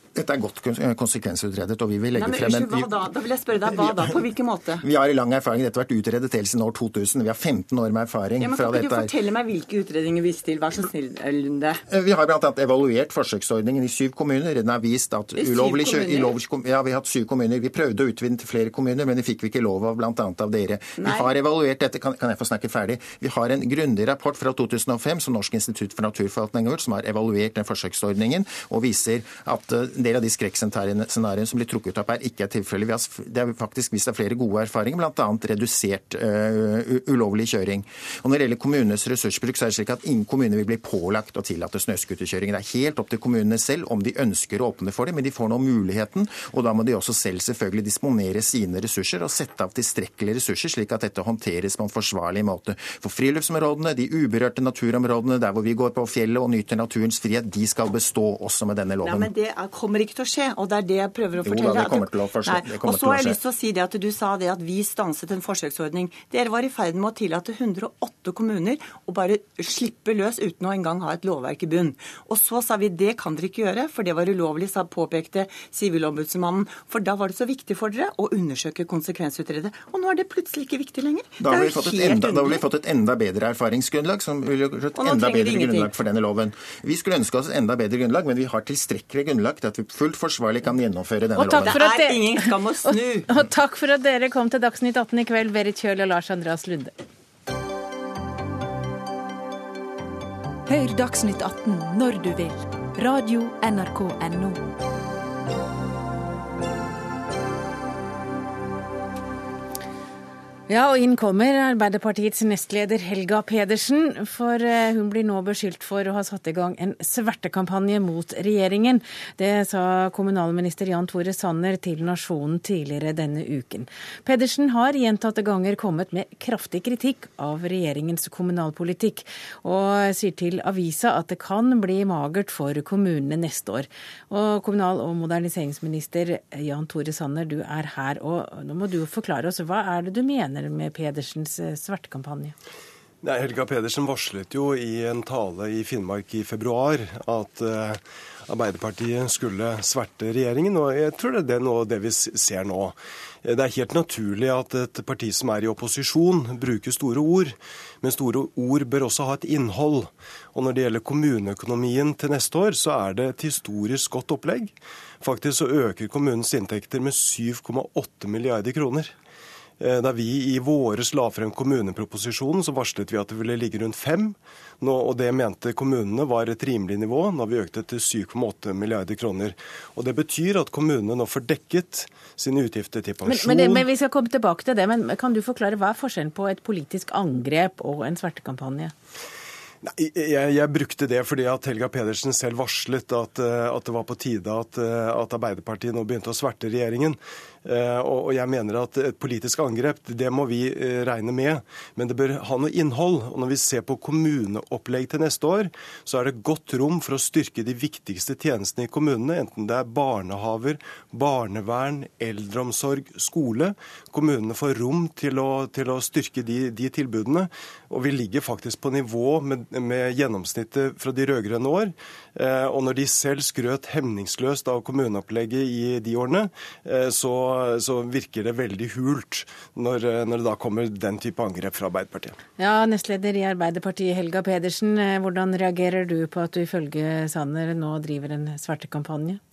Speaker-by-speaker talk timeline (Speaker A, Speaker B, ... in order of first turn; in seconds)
Speaker A: 0.1-3.0, 3.6-4.3, 4.8-9.1, 11.9-59.3, 61.4-63.4, 81.4-91.7
Speaker B: 2.1-4.8, 8.4-11.8, 15.4-16.4, 21.0-21.3, 59.0-82.6, 85.0-85.9, 91.4-93.2
Speaker C: 91.3-96.9, 110.7-142.5, 183.2-188.9, 232.6-239.4
Speaker D: 100.7-104.6
Speaker E: 143.2-169.1, 169.8-183.9, 189.8-232.3